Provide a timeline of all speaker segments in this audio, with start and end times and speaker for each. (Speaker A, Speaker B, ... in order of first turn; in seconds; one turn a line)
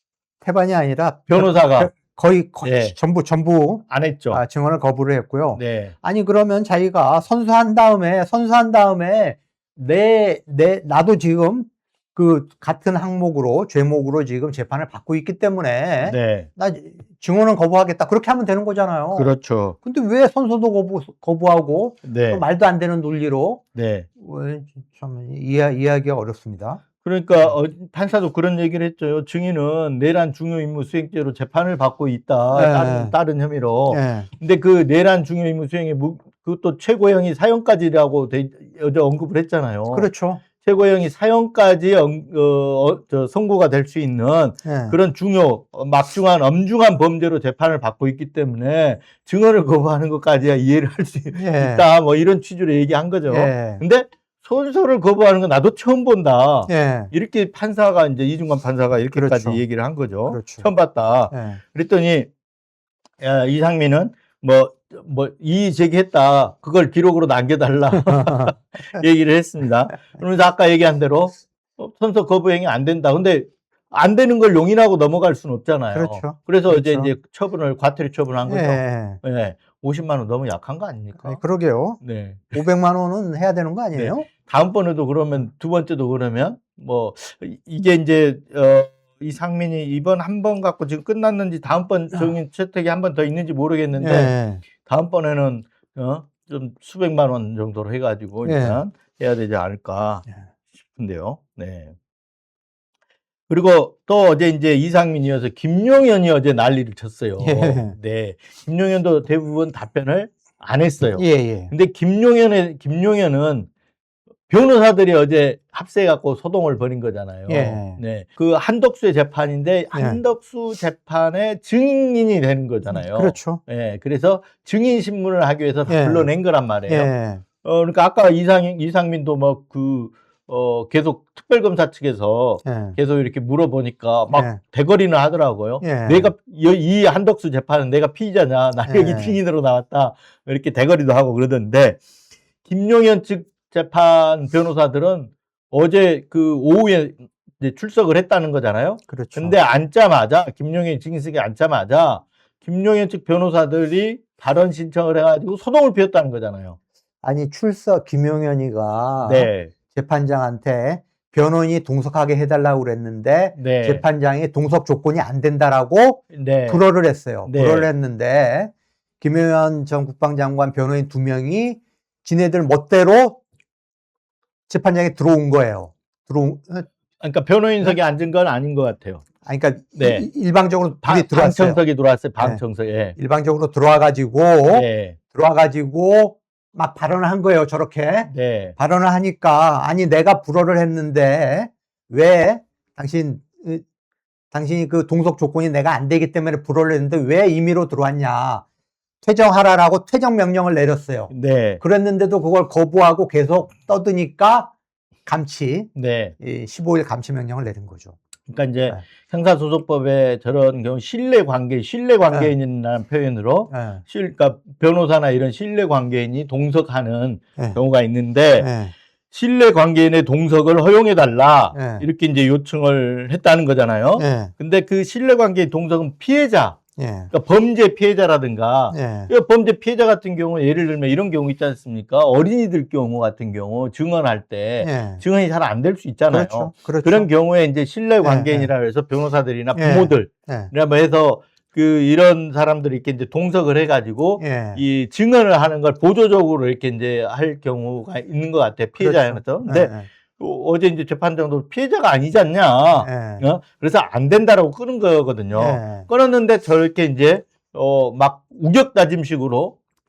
Speaker A: 0.4-19.3
Speaker B: 1.3-1.9
Speaker B: 2.6-3.0
Speaker B: 3.9-4.4
Speaker B: 5.5-5.9
Speaker B: 16.0-16.5
Speaker B: 19.1-19.8
Speaker A: 19.8-23.6
Speaker B: 22.0-22.4
Speaker B: 23.7-24.1
Speaker A: 24.2-26.8
Speaker B: 27.0-62.3
Speaker A: 32.5-33.1
Speaker A: 33.9-34.3
Speaker A: 39.9-40.4
Speaker A: 44.6-44.9
Speaker A: 51.3-51.8
Speaker A: 53.3-53.8
Speaker A: 56.7-57.1
Speaker A: 59.1-59.6
Speaker A: 60.3-60.7
Speaker A: 61.3-61.6
Speaker B: 63.2-81.4
Speaker A: 67.9-69.0
Speaker A: 75.9-77.1
Speaker A: 78.5-79.2
Speaker A: 81.2-82.0
Speaker B: 82.0-82.6
Speaker A: 82.5-84.3
Speaker B: 83.9-100.3
Speaker A: 94.0-94.6
Speaker A: 98.4-98.8
Speaker B: 100.9-101.9
Speaker B: 103.5-113.7
Speaker A: 107.4-107.9
Speaker A: 111.2-111.7
Speaker B: 114.5-127.1
Speaker A: 117.5-118.0
Speaker A: 119.9-120.2
Speaker A: 122.9-123.6
Speaker A: 125.9-126.3
Speaker A: 126.9-127.4
Speaker B: 127.6-142.0
Speaker A: 132.6-133.0
Speaker A: 134.3-134.6
Speaker A: 135.8-136.3
Speaker A: 138.8-139.4
Speaker B: 142.6-156.8
Speaker A: 149.1-149.6
Speaker A: 157.2-173.4
Speaker B: 159.2-159.7
Speaker B: 163.6-164.1
Speaker B: 166.3-166.8
Speaker B: 167.4-167.9
Speaker A: 174.7-176.9
Speaker B: 177.2-179.2
Speaker A: 179.4-181.8
Speaker B: 180.0-180.3
Speaker B: 181.0-183.2
Speaker A: 183.2-193.8
Speaker B: 184.7-185.2
Speaker B: 188.3-188.8
Speaker A: 194.5-198.6
Speaker A: 199.2-204.7
Speaker B: 201.3-201.8
Speaker A: 205.2-208.2
Speaker B: 205.9-206.3
Speaker B: 208.5-218.7
Speaker A: 212.3-212.5
Speaker A: 213.7-214.0
Speaker A: 218.6-218.9
Speaker B: 219.3-226.8
Speaker A: 221.7-222.0
Speaker A: 224.2-224.5
Speaker A: 227.0-227.3
Speaker B: 227.3-259.8
Speaker A: 228.9-229.3
Speaker A: 234.8-235.2
Speaker A: 236.3-237.3
Speaker A: 238.2-238.7
Speaker A: 239.7-240.7
Speaker A: 244.4-244.8
Speaker A: 249.0-250.1
Speaker A: 253.0-253.4
Speaker A: 255.5-256.1